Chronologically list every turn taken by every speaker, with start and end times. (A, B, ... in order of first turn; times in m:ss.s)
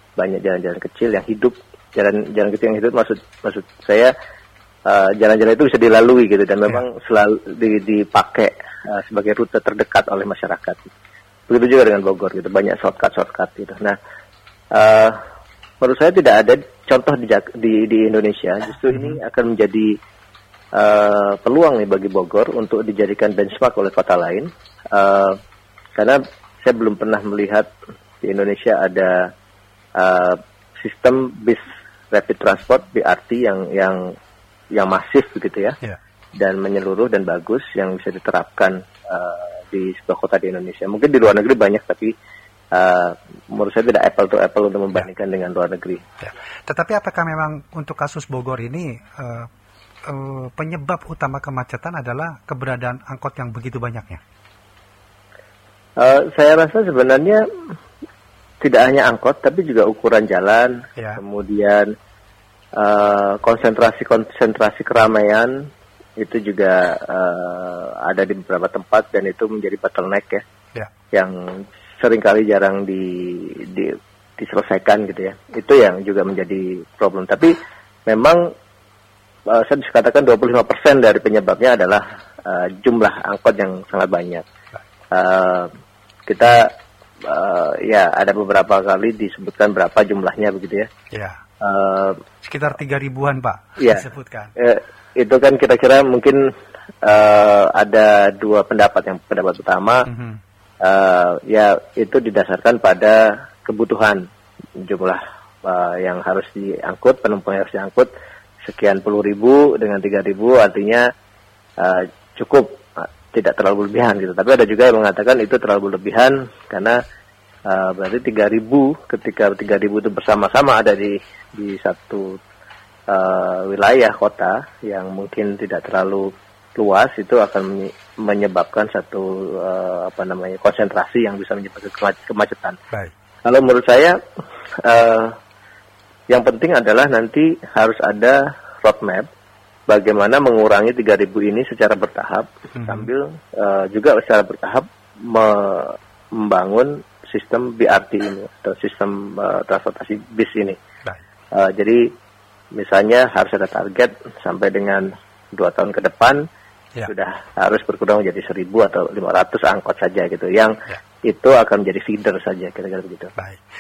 0:00.2-0:04.1 A
0:04.9-0:10.9 A
0:11.5-0:14.0 A
0:14.7-0:15.2 A
0:15.8-0:20.0 A
0:18.9-0:19.2 B
0:20.7-0:25.4 A
0:26.0-0:27.7 A
0:28.2-0:29.3 A
0:30.0-0:31.6 A
0:32.1-0:34.1 A
0:34.7-0:35.8 A
0:36.4-0:42.1 A
0:42.7-0:46.0 A
0:46.2-0:49.5 B
0:50.1-0:54.2 B
0:56.0-0:57.4 A
0:58.6-1:01.9 A
1:02.8-1:05.7 A
1:06.2-1:10.4 A
1:11.1-1:17.5 A
1:18.1-1:18.5 A
1:19.5-1:24.4 A
1:25.1-1:25.7 A
1:26.3-1:26.7 A
1:27.2-1:30.9 A
1:31.1-1:31.4 B
1:31.6-1:32.2 A
1:32.4-1:34.5 B
1:33.8-1:34.1 A
1:34.6-1:36.4 A
1:37.0-1:40.1 A
1:40.1-1:40.4 B
1:40.8-1:44.2 A
1:44.8-1:48.1 A
1:48.6-1:51.1 A
1:51.8-1:57.0 A
1:57.7-2:02.4 A
2:03.1-2:12.8 A
2:13.4-2:14.2 A
2:14.8-2:15.3 A
2:16.3-2:19.3 A
2:19.9-2:30.8 A
2:22.8-2:23.1 B
2:31.5-2:32.1 A
2:32.7-2:36.4 A
2:37.1-2:43.3 A